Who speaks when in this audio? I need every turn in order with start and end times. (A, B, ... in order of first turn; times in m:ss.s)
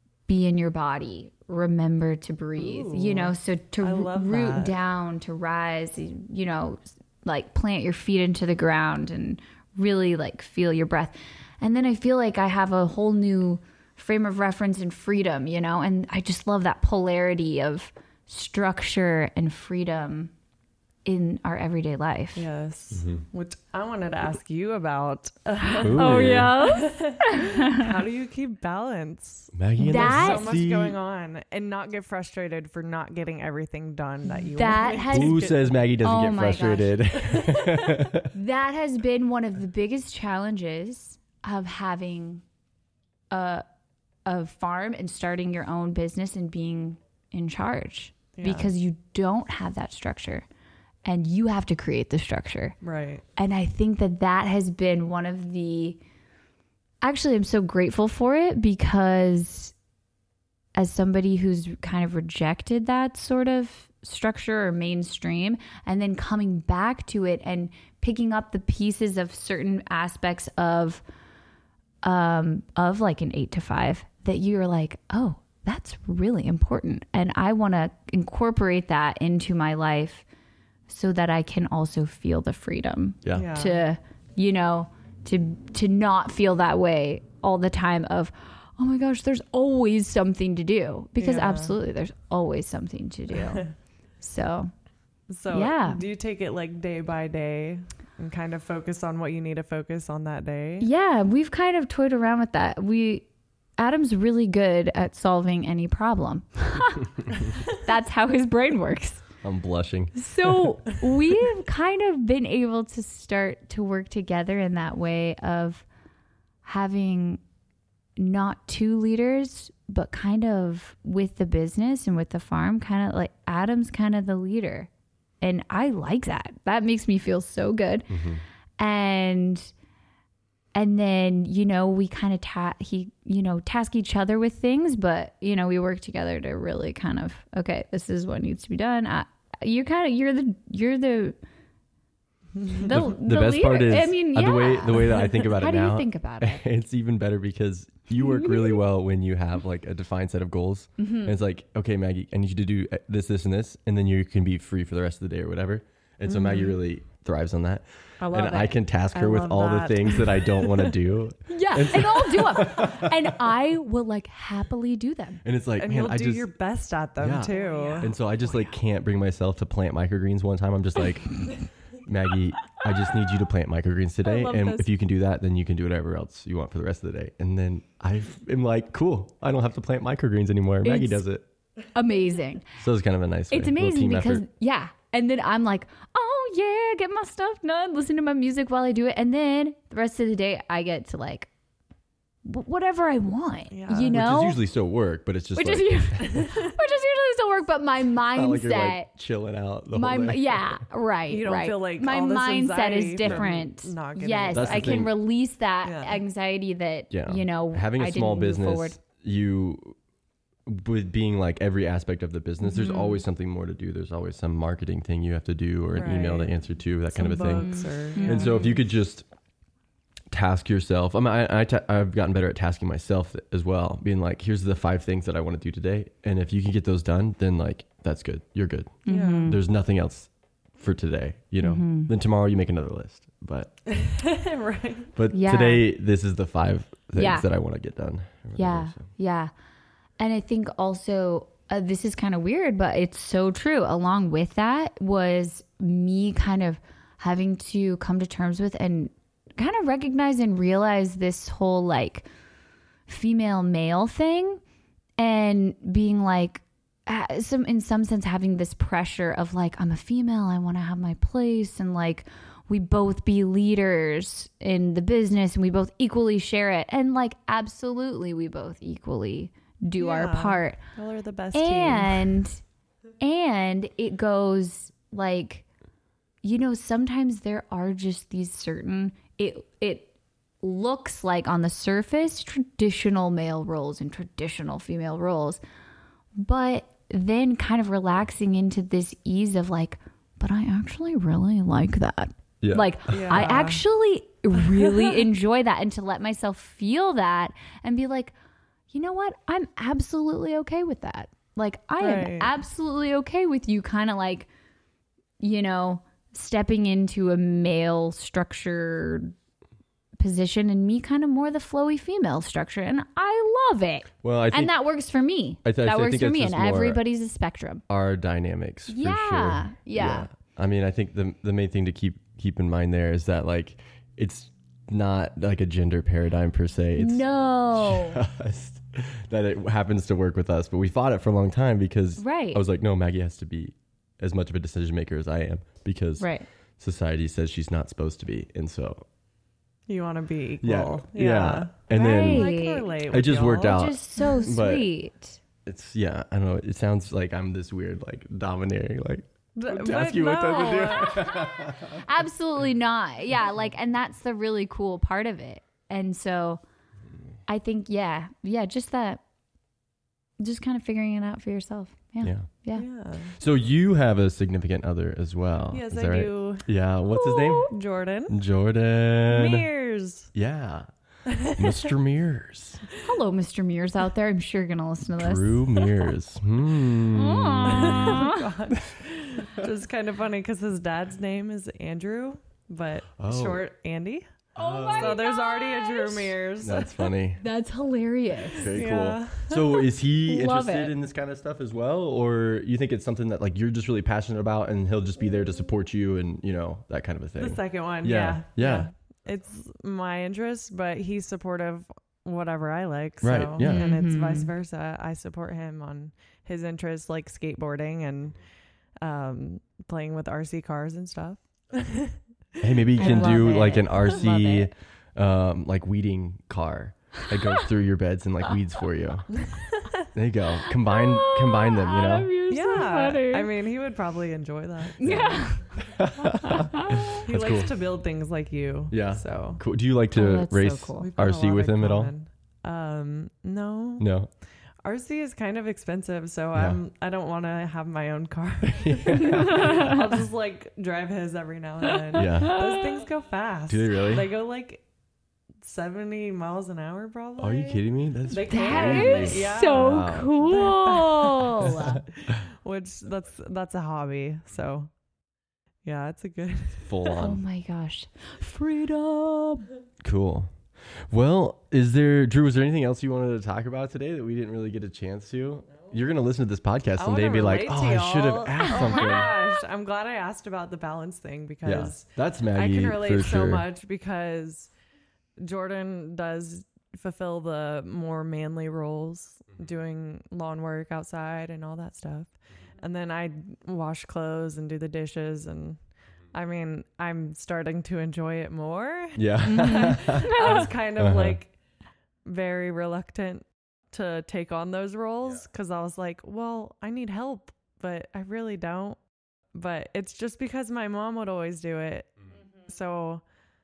0:00.3-0:20.3 A
0:02.6-0:04.8 B
0:21.0-0:22.5 A
0:22.3-0:35.7 B
0:22.9-0:23.2 C
0:25.8-0:26.6 C
0:25.9-0:27.9 A
0:29.5-0:31.0 C
0:29.8-0:30.5 A
0:34.4-0:35.5 A
0:35.1-0:38.3 C
0:36.0-0:37.1 A
0:37.2-0:38.0 B
0:38.3-0:42.4 A
0:43.3-0:43.6 A
0:44.2-0:50.4 A
0:48.4-0:48.7 B
0:51.0-0:52.8 A
0:52.8-0:53.2 B
0:53.4-0:56.0 A
0:57.0-0:59.7 A
1:00.8-1:11.0 A
1:12.0-1:20.2 A
1:20.9-1:33.6 A
1:23.2-1:23.5 C
1:23.3-1:23.8 B
1:31.2-1:31.8 B
1:33.4-1:33.7 B
1:34.2-1:34.7 A
1:35.3-1:40.9 B
1:35.5-1:36.0 A
1:40.8-1:43.2 A
1:43.8-1:49.2 A
1:49.4-1:50.7 C
1:50.1-1:55.8 A
1:56.6-1:57.4 A
1:58.2-2:04.9 A
2:05.4-2:08.1 A
2:08.1-2:08.4 C
2:08.8-2:09.7 A
2:10.7-2:21.4 A
2:22.6-2:22.9 B
2:22.7-2:26.6 A
2:22.9-2:43.3 C
2:31.0-2:31.4 A
2:36.3-2:36.7 B
2:38.2-2:38.8 A
2:39.1-2:40.9 B
2:41.5-2:45.4 A
2:45.4-2:46.5 C
2:45.8-2:48.1 B
2:47.2-3:01.4 C
2:47.4-2:48.1 A
2:54.3-2:54.8 B
3:00.8-3:01.2 A
3:01.9-3:02.7 A
3:02.8-3:04.4 C
3:03.5-3:11.5 A
3:12.4-3:14.6 A
3:13.7-3:14.2 B
3:14.1-3:16.5 C
3:15.5-3:19.1 A
3:18.3-3:20.8 C
3:19.9-3:29.0 A
3:21.3-3:25.1 B
3:24.5-3:25.1 C
3:25.8-3:26.2 B
3:27.1-3:30.0 C
3:30.6-3:39.2 C
3:32.6-3:33.2 A
3:35.9-3:36.6 B
3:37.1-3:38.6 B
3:37.5-3:38.7 A
3:40.3-3:53.7 C
3:49.0-3:49.6 A
3:49.1-3:49.5 B
3:51.6-3:52.1 A
3:53.9-3:55.1 B
3:55.2-3:59.0 C
3:55.3-3:55.8 A
3:57.2-3:57.5 A
3:58.6-3:59.5 A
4:00.2-4:12.3 A
4:13.1-4:14.6 A
4:15.2-4:30.8 A
4:30.0-4:32.4 B
4:31.5-4:32.6 A
4:33.2-4:35.6 A
4:36.4-4:40.1 A
4:40.6-4:45.6 A
4:46.4-4:58.3 A
4:52.6-4:53.5 C
4:53.1-4:53.8 B
4:58.9-5:04.5 A
5:02.0-5:02.5 B
5:05.4-5:09.3 A
5:10.2-5:17.8 A
5:14.2-5:14.7 C
5:15.6-5:17.0 C
5:17.9-5:39.0 C
5:18.9-5:20.3 A
5:27.0-5:28.2 A
5:32.2-5:32.6 A
5:36.2-5:36.5 A
5:39.9-5:43.9 B
5:40.6-5:42.5 C
5:41.9-5:42.9 A
5:43.1-5:44.9 C
5:43.6-5:45.4 A
5:45.6-5:52.0 C
5:49.6-5:51.3 B
5:50.7-5:56.6 A
5:57.5-5:59.2 A
6:00.4-6:02.8 A
6:02.2-6:02.5 C
6:02.7-6:03.4 B
6:03.3-6:07.7 C
6:05.7-6:06.7 B
6:07.1-6:07.7 A
6:07.7-6:08.4 B
6:08.3-6:09.7 C
6:09.2-6:10.3 B
6:10.3-6:10.9 C
6:11.3-6:11.9 B
6:11.4-6:12.8 C
6:13.0-6:15.9 A
6:15.1-6:18.3 C
6:17.1-6:18.5 A
6:17.6-6:24.2 B
6:23.2-6:23.6 C
6:24.5-6:25.2 C
6:24.6-6:26.4 A
6:24.9-6:27.1 B
6:26.6-6:27.4 C
6:27.4-6:28.7 A
6:28.5-6:38.9 C
6:28.7-6:29.9 B
6:30.2-6:30.9 A
6:37.4-6:48.4 B
6:43.2-6:43.9 C
6:43.6-6:44.5 A
6:49.0-6:52.2 B
6:52.6-6:59.3 C
6:52.8-6:53.8 B
6:53.0-6:54.7 A
6:59.3-7:00.1 B
7:00.1-7:02.3 C
7:00.7-7:03.5 A
7:02.5-7:05.6 B
7:05.0-7:05.6 A
7:05.8-7:07.7 C
7:06.4-7:07.2 A
7:07.2-7:09.6 B
7:08.9-7:12.1 C
7:10.1-7:11.1 A
7:11.0-7:14.1 B
7:14.0-7:14.3 C
7:14.8-7:24.8 B
7:16.5-7:16.8 C
7:18.7-7:20.0 C
7:19.5-7:19.9 A
7:22.1-7:22.9 A
7:22.1-7:22.6 C
7:23.7-7:24.3 C
7:25.6-7:34.9 B
7:27.4-7:30.4 C
7:28.5-7:32.0 A
7:31.8-7:32.4 C
7:35.8-7:37.2 B
7:36.8-7:37.4 C
7:37.2-7:39.7 A
7:40.0-7:49.3 C
7:47.0-7:54.7 B
7:48.6-7:49.2 A
7:51.6-7:53.7 C
7:55.4-8:05.8 B
8:06.3-8:11.5 B
8:09.2-8:11.4 C
8:09.4-8:10.7 A
8:12.2-8:19.0 B
8:19.5-8:23.2 B